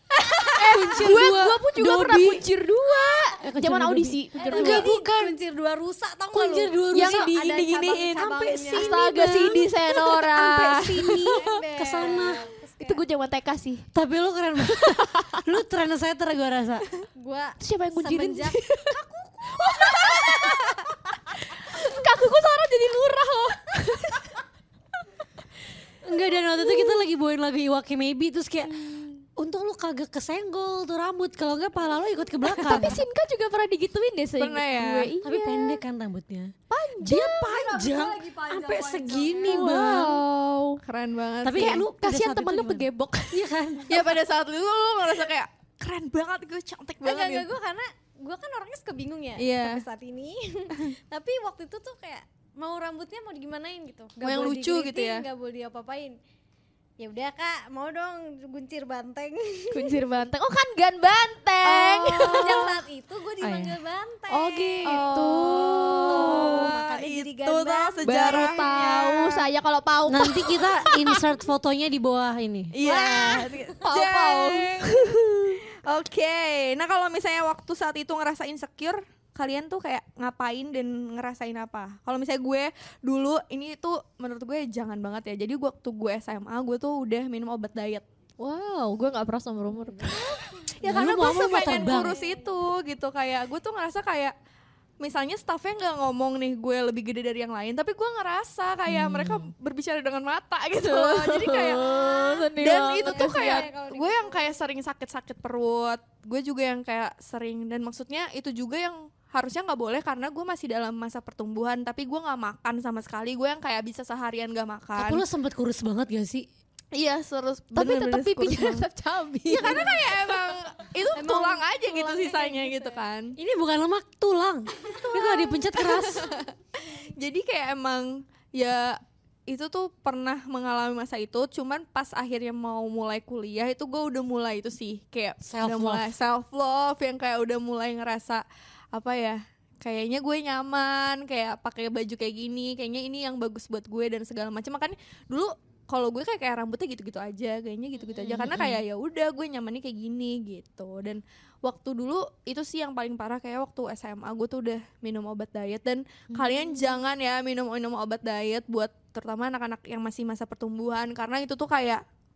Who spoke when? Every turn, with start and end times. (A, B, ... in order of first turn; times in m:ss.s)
0:00.2-0:04.9 A
0:00.4-0:01.4 B
0:00.6-0:02.5 C
0:03.4-0:05.4 C
0:04.4-0:09.0 D
0:06.3-0:07.4 C
0:06.9-0:11.4 A
0:08.2-0:09.7 C
0:10.3-0:12.4 C
0:10.4-0:13.0 D
0:12.8-0:13.9 A
0:13.9-0:16.9 C
0:14.7-0:15.5 A
0:17.2-0:20.5 D
0:17.6-0:19.0 A
0:19.5-0:24.4 A
0:21.0-0:21.9 D
0:26.0-0:33.0 C
0:26.6-0:27.0 A
0:28.7-0:29.2 A
0:32.5-0:35.8 A
0:34.4-0:35.1 B
0:35.2-0:40.2 C
0:36.7-0:37.5 A
0:37.4-0:39.7 D
0:39.4-0:40.8 A
0:40.8-0:41.9 B
0:41.4-0:44.0 C
0:41.6-0:43.4 A
0:43.9-0:47.5 B
0:47.0-0:56.2 D
0:49.4-0:49.8 B
0:54.2-0:55.2 B
0:57.0-1:00.0 D
0:59.7-1:02.7 A
1:01.6-1:02.7 B
1:02.3-1:05.0 D
1:04.3-1:06.7 A
1:04.8-1:09.5 B
1:06.1-1:09.1 D
1:08.0-1:11.1 A
1:10.1-1:12.7 C
1:12.7-1:28.0 B
1:12.8-1:15.6 A
1:28.4-1:30.4 A
1:30.0-1:32.6 D
1:30.8-1:32.1 C
1:30.8-1:34.4 B
1:35.0-1:42.0 B
1:38.9-1:39.5 A
1:40.8-1:43.7 A
1:41.8-1:42.5 D
1:42.6-1:55.2 B
1:43.0-1:44.6 D
1:55.0-1:56.5 C
1:57.0-1:58.9 B
1:57.7-2:00.1 A
1:59.5-2:03.4 B
1:59.6-2:00.0 D
2:01.2-2:03.0 D
2:03.4-2:06.3 C
2:04.9-2:05.3 D
2:05.2-2:42.0 B
2:15.4-2:16.1 C
2:28.2-2:28.8 A
2:36.3-2:36.8 A